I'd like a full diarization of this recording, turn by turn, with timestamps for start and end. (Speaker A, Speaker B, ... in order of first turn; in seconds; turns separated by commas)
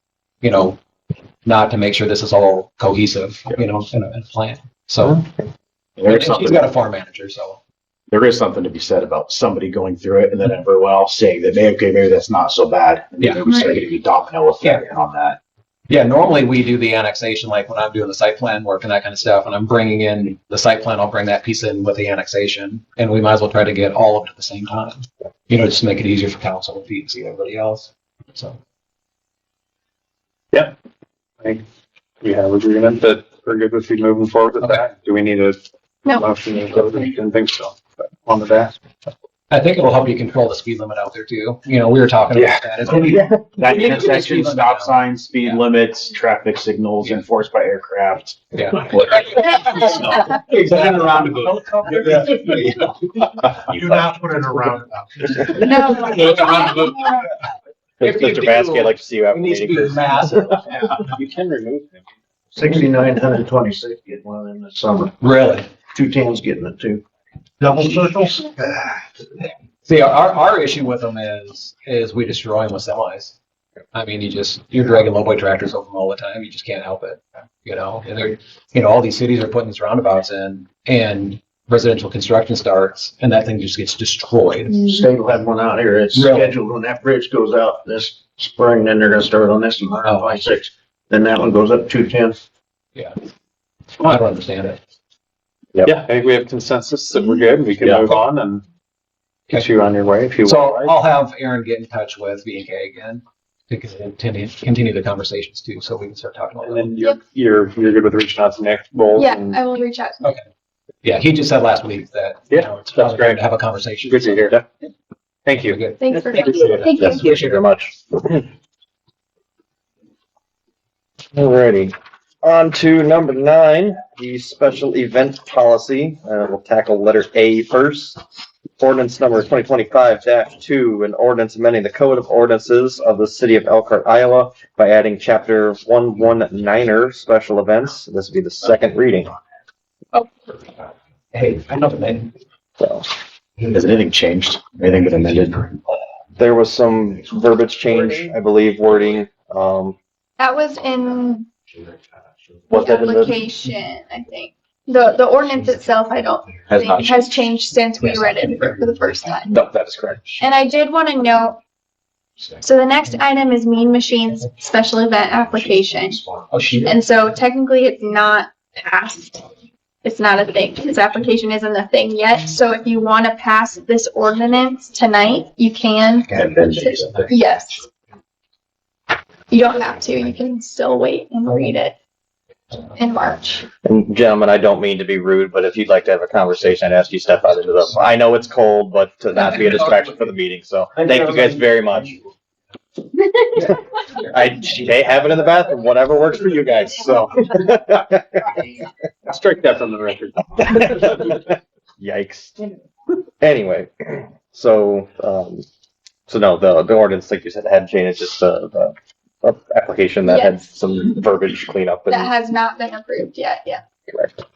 Speaker A: 0.4-0.8, Speaker A: 1.4-5.3, Speaker B: 6.0-6.7, Speaker A: 6.1-7.6, Speaker B: 8.1-15.4, Speaker A: 15.9-28.6, Speaker C: 32.2-35.6, Speaker C: 36.1-38.7, Speaker A: 39.5-45.6, Speaker B: 42.9-49.3, Speaker A: 48.5-52.7, Speaker C: 50.7-52.7, Speaker D: 53.7-55.5, Speaker E: 55.6-57.0, Speaker A: 55.8-57.2, Speaker C: 56.0-56.8, Speaker F: 58.0-60.5, Speaker A: 58.0-61.0, Speaker F: 61.2-61.6, Speaker G: 62.5-65.1, Speaker A: 65.2-65.7, Speaker G: 65.9-67.0, Speaker G: 67.6-68.9, Speaker D: 67.6-68.5, Speaker A: 69.8-73.4, Speaker A: 73.9-84.8, Speaker G: 84.9-92.4, Speaker A: 86.1-86.5, Speaker A: 90.0-90.3, Speaker A: 94.0-94.8, Speaker C: 95.8-98.6, Speaker C: 99.5-100.9, Speaker A: 100.4-106.9, Speaker C: 106.6-109.6, Speaker E: 109.2-110.3, Speaker A: 111.0-114.5, Speaker C: 112.5-113.4, Speaker C: 114.0-114.6, Speaker C: 115.5-115.8, Speaker A: 115.7-116.9, Speaker E: 116.0-117.2, Speaker F: 116.4-118.5, Speaker F: 121.3-128.2, Speaker F: 128.8-139.3, Speaker A: 141.3-142.3, Speaker F: 142.8-143.1, Speaker B: 143.7-145.7, Speaker F: 146.4-150.0, Speaker E: 150.4-151.5, Speaker F: 152.7-153.4, Speaker E: 152.7-159.5, Speaker B: 156.7-157.5, Speaker A: 158.0-158.6, Speaker F: 159.5-160.3, Speaker E: 160.4-161.6, Speaker E: 162.6-166.3, Speaker A: 166.5-166.9, Speaker E: 166.8-169.5, Speaker E: 170.0-177.9, Speaker B: 176.3-177.4, Speaker E: 179.5-181.9, Speaker E: 182.9-183.7, Speaker F: 183.8-192.2, Speaker F: 193.6-198.5, Speaker C: 199.3-201.3, Speaker F: 200.6-202.7, Speaker F: 203.4-205.7, Speaker F: 206.3-212.3, Speaker E: 210.2-210.7, Speaker E: 212.1-213.8, Speaker F: 214.1-214.4